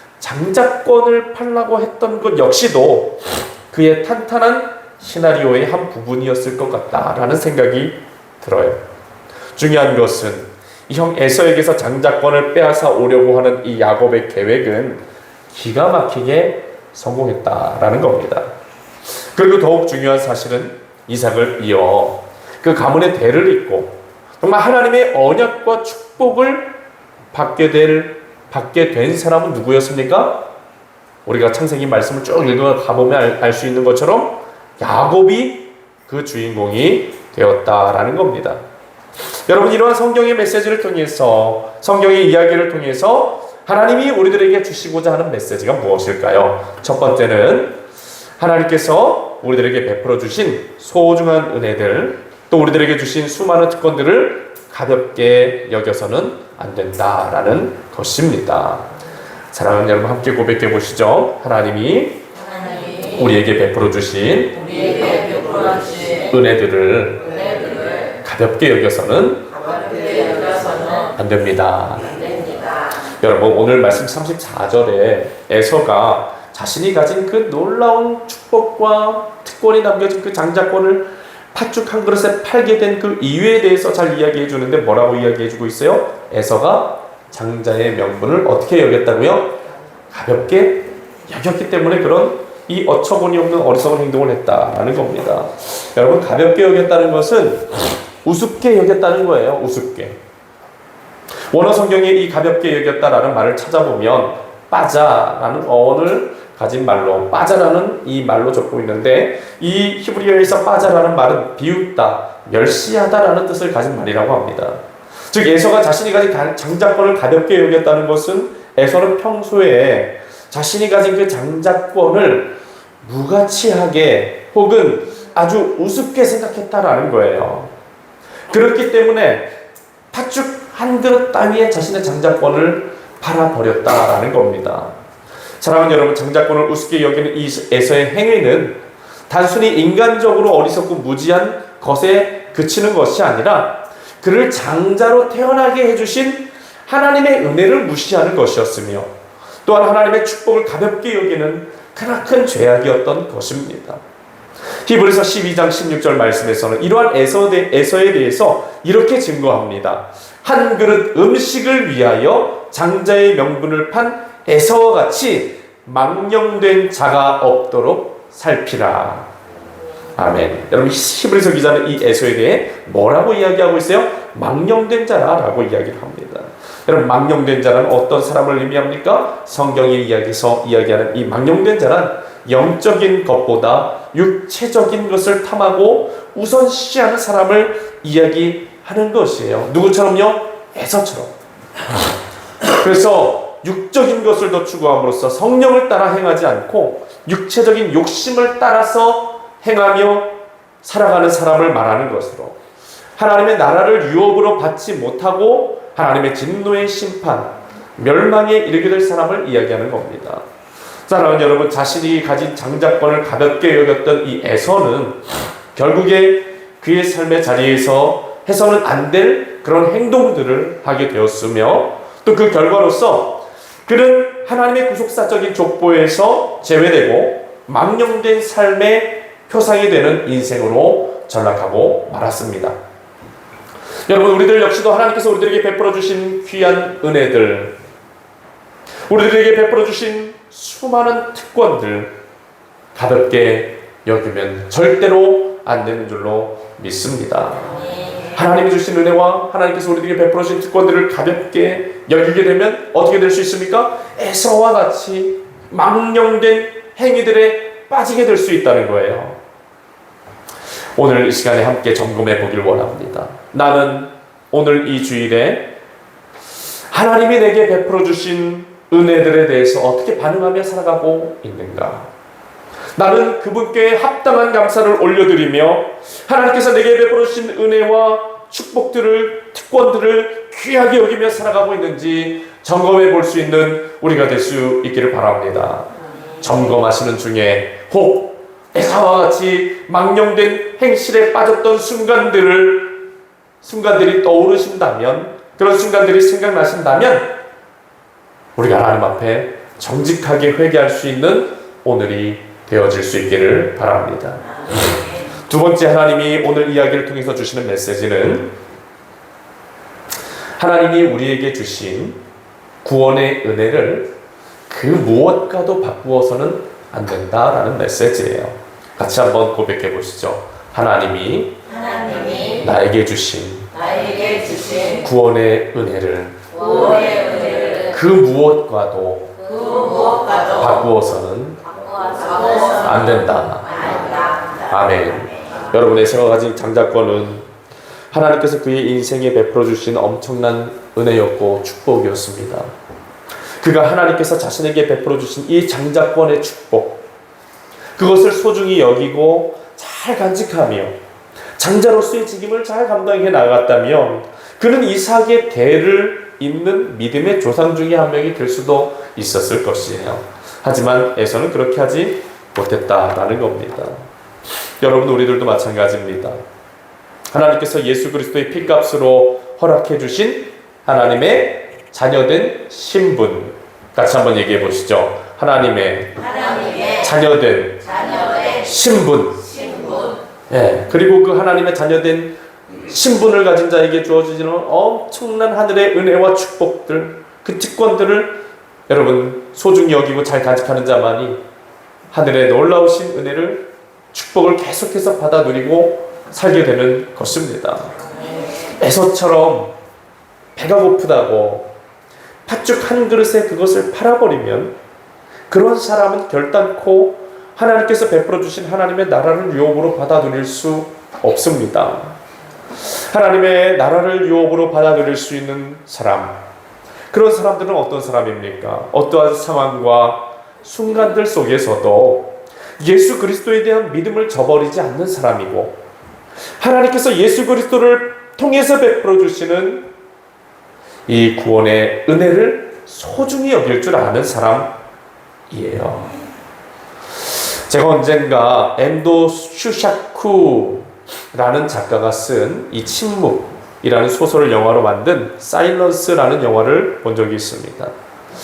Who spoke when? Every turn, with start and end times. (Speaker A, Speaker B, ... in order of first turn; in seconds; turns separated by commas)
Speaker A: 0.2-8.8, Speaker A: 9.6-18.5, Speaker A: 19.2-26.7, Speaker A: 27.3-30.4, Speaker A: 31.3-38.6, Speaker A: 39.5-47.8, Speaker A: 48.4-58.9, Speaker A: 59.5-62.2, Speaker B: 62.5-63.2, Speaker A: 63.1-64.6, Speaker B: 64.6-66.3, Speaker A: 66.3-67.3, Speaker B: 67.3-68.1, Speaker A: 68.2-69.5, Speaker B: 69.6-71.1, Speaker A: 71.2-72.2, Speaker B: 72.2-72.8, Speaker A: 73.2-89.6, Speaker A: 90.1-100.2, Speaker A: 101.5-127.7, Speaker A: 128.5-129.5, Speaker A: 130.1-134.9, Speaker A: 135.6-138.8, Speaker A: 139.3-149.1, Speaker A: 149.7-154.0, Speaker A: 154.9-169.3, Speaker A: 170.2-191.3, Speaker A: 192.7-202.6, Speaker A: 203.2-210.4, Speaker A: 211.1-215.2, Speaker A: 215.8-232.8, Speaker A: 234.1-237.8, Speaker A: 239.1-242.1, Speaker A: 242.9-247.8, Speaker A: 248.3-259.4, Speaker A: 261.0-265.7, Speaker A: 266.9-272.1, Speaker A: 273.0-293.0, Speaker A: 293.6-297.3, Speaker A: 298.6-304.8, Speaker B: 304.6-305.2, Speaker A: 305.5-308.5, Speaker A: 310.6-312.2, Speaker A: 312.8-314.1, Speaker A: 314.7-321.6, Speaker B: 321.7-322.6, Speaker A: 322.6-323.7, Speaker B: 323.7-325.0, Speaker A: 325.0-326.4, Speaker B: 326.5-327.9, Speaker A: 327.9-329.3, Speaker B: 329.4-330.6, Speaker A: 330.6-331.6, Speaker B: 331.7-332.9, Speaker A: 332.8-333.8, Speaker B: 333.7-334.7, Speaker A: 334.7-337.5, Speaker A: 338.1-342.7, Speaker A: 343.6-347.0, Speaker A: 348.0-350.9, Speaker A: 351.6-364.1, Speaker A: 364.8-366.4, Speaker A: 367.3-376.2, Speaker B: 376.2-377.1, Speaker A: 377.0-377.8, Speaker B: 377.8-378.7, Speaker A: 378.6-379.4, Speaker B: 379.4-380.2, Speaker A: 380.5-391.4, Speaker A: 392.1-398.0, Speaker A: 398.8-399.7, Speaker A: 400.6-401.7, Speaker A: 402.5-404.8, Speaker A: 405.5-412.2, Speaker A: 412.9-416.4, Speaker A: 417.1-425.8, Speaker A: 426.6-429.9, Speaker A: 431.1-434.7, Speaker A: 435.5-436.1, Speaker A: 437.7-447.9